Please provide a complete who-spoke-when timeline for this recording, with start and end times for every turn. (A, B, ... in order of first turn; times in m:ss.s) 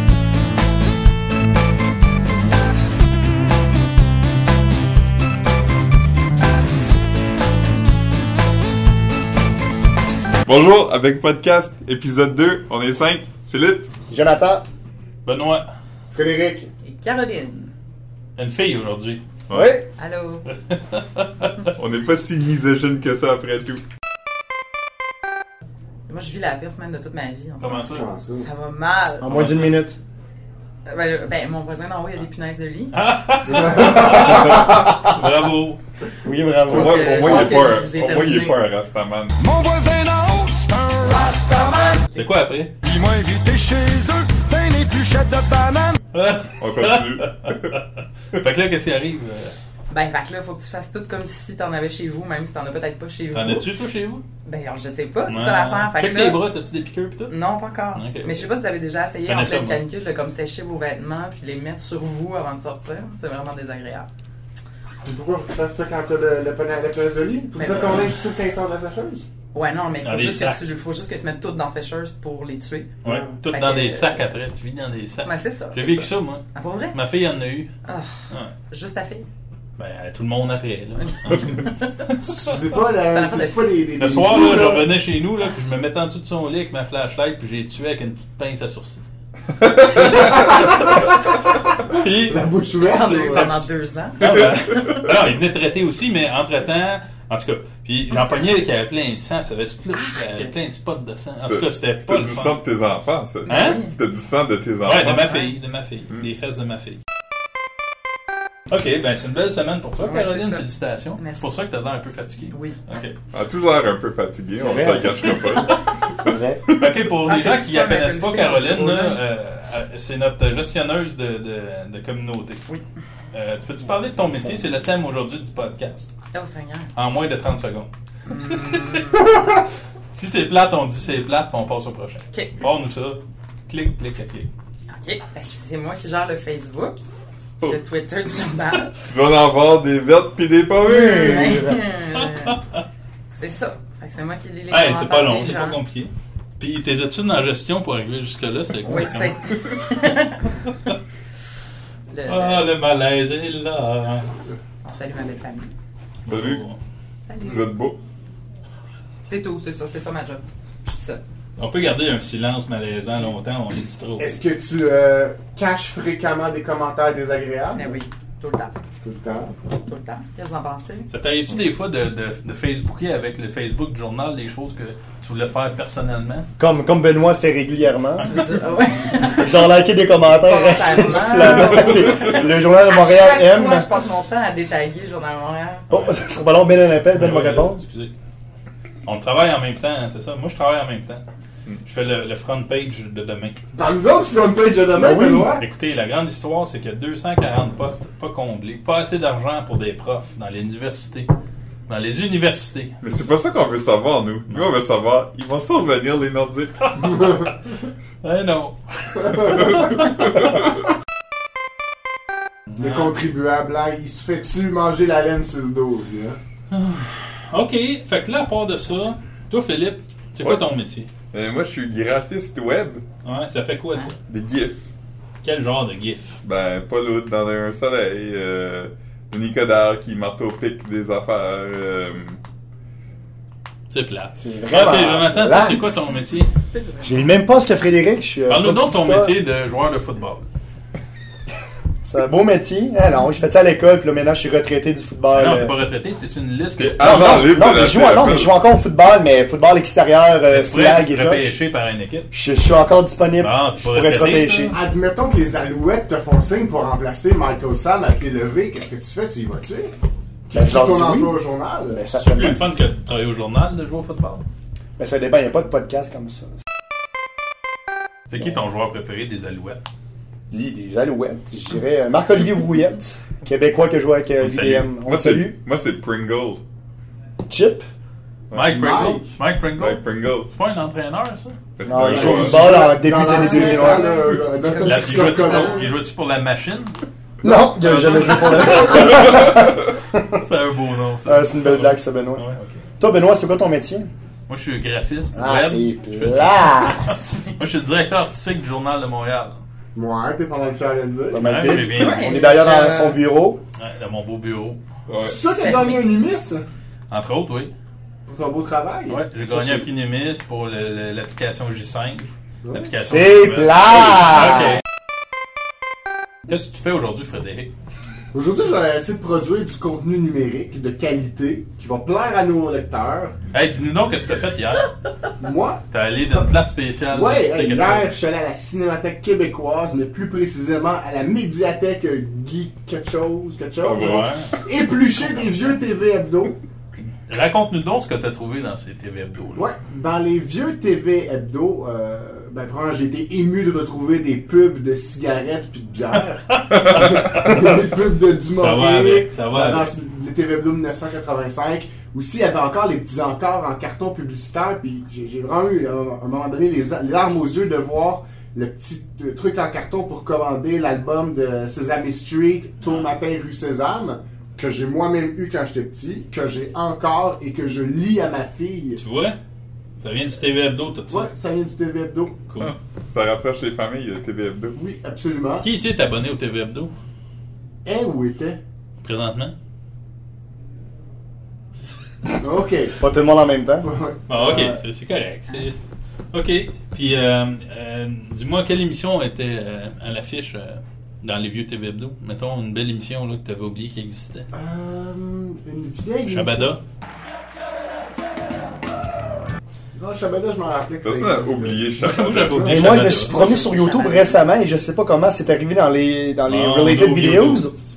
0:10.5-0:13.9 A
0:14.1-0:14.6 B
0:15.2-0:15.7 C
0:16.1-0:16.7 D
0:16.8-0:17.7 E
0:18.4-0:19.2 C
0:19.5-0:19.8 A
0:19.5-0:19.8 B
0:20.0-0:20.5 E
0:20.7-0:21.6 C
0:21.7-0:23.8 A
0:26.1-0:29.5 E
0:27.6-0:28.1 C
0:27.6-0:28.5 D
0:29.2-0:30.0 B
0:29.3-0:29.6 C
0:30.9-0:33.0 E
0:32.9-0:35.8 C
0:33.5-0:34.6 D
0:36.2-0:37.6 B
0:36.7-0:38.6 E
0:36.7-0:39.4 A
0:39.4-0:42.0 F
0:41.0-0:42.2 E
0:42.1-0:42.8 C
0:42.8-0:46.0 F
0:46.1-0:49.6 C
0:46.6-0:47.8 A
0:49.9-0:53.7 E
0:53.3-0:54.2 C
0:54.4-0:56.4 E
0:55.3-0:57.4 C
0:57.3-1:04.1 E
0:57.9-0:58.5 C
0:59.3-0:59.8 C
1:05.0-1:09.3 D
1:07.6-1:08.1 E
1:09.5-1:14.2 E
1:10.0-1:10.7 C
1:13.0-1:17.7 C
1:13.0-1:13.4 D
1:15.2-1:17.0 E
1:17.8-1:18.1 E
1:18.7-1:19.3 E
1:19.8-1:22.2 C
1:21.3-1:21.8 E
1:22.2-1:24.9 D
1:22.9-1:23.8 E
1:24.0-1:29.0 C
1:29.6-1:30.2 A
1:30.0-1:30.5 C
1:30.1-1:31.3 D
1:31.9-1:33.7 D
1:32.0-1:32.4 C
1:32.8-1:35.1 E
1:34.2-1:42.6 C
1:40.0-1:40.5 E
1:41.4-1:45.5 A
1:43.5-1:43.9 E
1:43.5-1:43.8 C
1:44.8-1:47.0 C
1:48.7-1:53.2 C
1:50.0-1:50.6 E
1:51.2-1:51.5 E
1:52.5-1:52.8 E
1:53.3-1:55.9 A
1:54.6-1:55.3 B
1:56.2-1:56.6 B
1:56.8-2:02.6 C
1:57.2-1:59.2 E
2:03.3-2:06.1 C
2:06.3-2:06.9 E
2:06.9-2:07.9 C
2:08.3-2:09.5 E
2:08.4-2:09.4 C
2:10.1-2:14.5 C
2:12.3-2:12.6 E
2:14.9-2:17.0 E
2:17.6-2:19.0 E
2:19.0-2:21.8 A
2:20.8-2:22.6 E
2:22.1-2:22.8 C
2:23.3-2:25.8 E
2:24.7-2:29.4 C
2:28.9-2:30.5 E
2:32.1-2:32.7 E
2:32.3-2:34.3 C
2:34.8-2:35.7 E
2:36.3-2:36.8 C
2:36.3-2:36.6 A
2:37.3-2:37.6 E
2:37.4-2:38.0 A
2:39.3-2:41.2 E
2:41.6-2:44.4 C
2:44.2-2:48.0 D
2:47.7-2:48.8 E
2:49.0-2:49.5 D
2:49.8-2:51.1 E
2:51.1-2:56.5 C
2:56.6-2:58.4 B
2:58.2-2:59.7 E
2:59.2-3:03.9 B
3:00.4-3:05.9 E
3:05.9-3:06.2 C
3:05.9-3:07.8 B
3:07.1-3:08.1 C
3:09.0-3:11.2 C
3:11.8-3:13.6 C
3:13.7-3:15.6 D
3:14.9-3:15.6 B
3:15.6-3:21.3 C
3:21.9-3:23.4 C
3:23.0-3:27.4 A
3:26.9-3:27.2 C
3:28.2-3:29.8 C
3:29.7-3:30.0 A
3:32.8-3:36.4 D
3:36.7-3:41.1 C
3:41.3-3:43.0 A
3:43.2-3:44.1 C
3:44.3-3:44.8 A
3:45.4-3:46.4 C
3:46.4-3:52.4 A
3:53.9-3:56.5 C
3:54.4-3:55.9 B
3:55.5-3:57.3 E
3:57.0-3:59.4 B
3:58.5-4:00.5 C
4:02.1-4:05.8 B
4:05.3-4:07.5 C
4:06.8-4:08.6 A
4:07.0-4:11.6 B
4:10.5-4:12.3 C
4:12.3-4:14.8 B
4:13.4-4:14.8 C
4:14.1-4:19.9 D
4:20.5-4:22.1 D
4:20.5-4:22.6 B
4:22.2-4:24.5 C
4:25.0-4:26.6 B
4:28.3-4:29.8 C
4:30.5-4:35.6 B
4:34.4-4:34.9 C
4:35.0-4:36.6 A
4:37.5-4:37.8 B
4:38.5-4:38.8 A
4:38.5-4:41.6 C
4:38.7-4:39.3 D
4:39.8-4:40.5 A
4:41.8-4:42.9 A
4:41.9-4:44.2 B
4:42.1-4:45.9 D
4:43.2-4:45.9 E
4:44.8-4:47.0 C
4:47.4-4:50.4 B
4:47.8-4:49.5 C
4:50.3-4:52.9 C
4:51.3-4:52.4 B
4:53.0-4:54.1 B
4:54.5-4:59.6 C
4:55.4-4:57.2 B
5:00.0-5:01.6 D
5:01.3-5:03.6 B
5:01.4-5:02.3 C
5:02.0-5:03.2 E
5:03.8-5:04.8 C
5:05.1-5:05.4 A
5:05.2-5:06.6 D
5:05.5-5:06.1 E
5:07.1-5:07.7 C
5:08.3-5:09.9 D
5:09.1-5:14.8 C
5:13.0-5:14.7 B
5:16.5-5:17.7 C
5:18.3-5:23.4 D
5:23.5-5:24.9 C
5:25.4-5:26.5 D
5:25.9-5:28.1 C
5:27.1-5:36.6 D
5:33.8-5:34.3 A
5:34.0-5:34.6 C
5:37.3-5:39.7 C
5:39.6-6:09.0 D
5:46.5-5:47.8 C
5:46.9-5:47.3 A
5:48.5-5:49.9 C
6:09.0-6:09.4 C
6:10.0-6:11.3 C
6:11.1-6:12.4 D
6:12.6-6:14.8 A
6:14.8-6:15.7 D
6:15.6-6:16.9 C
6:17.8-6:18.6 D
6:19.0-6:19.6 C
6:22.4-6:23.0 D
6:23.0-6:23.9 B
6:23.8-6:24.8 D
6:24.3-6:25.8 C
6:26.3-6:34.5 C
6:34.5-6:36.7 D
6:36.3-6:36.8 C
6:39.9-6:41.9 D
6:41.0-6:43.2 A
6:42.0-6:43.4 C
6:42.6-6:47.7 B
6:43.1-6:44.4 E
6:46.5-6:47.7 C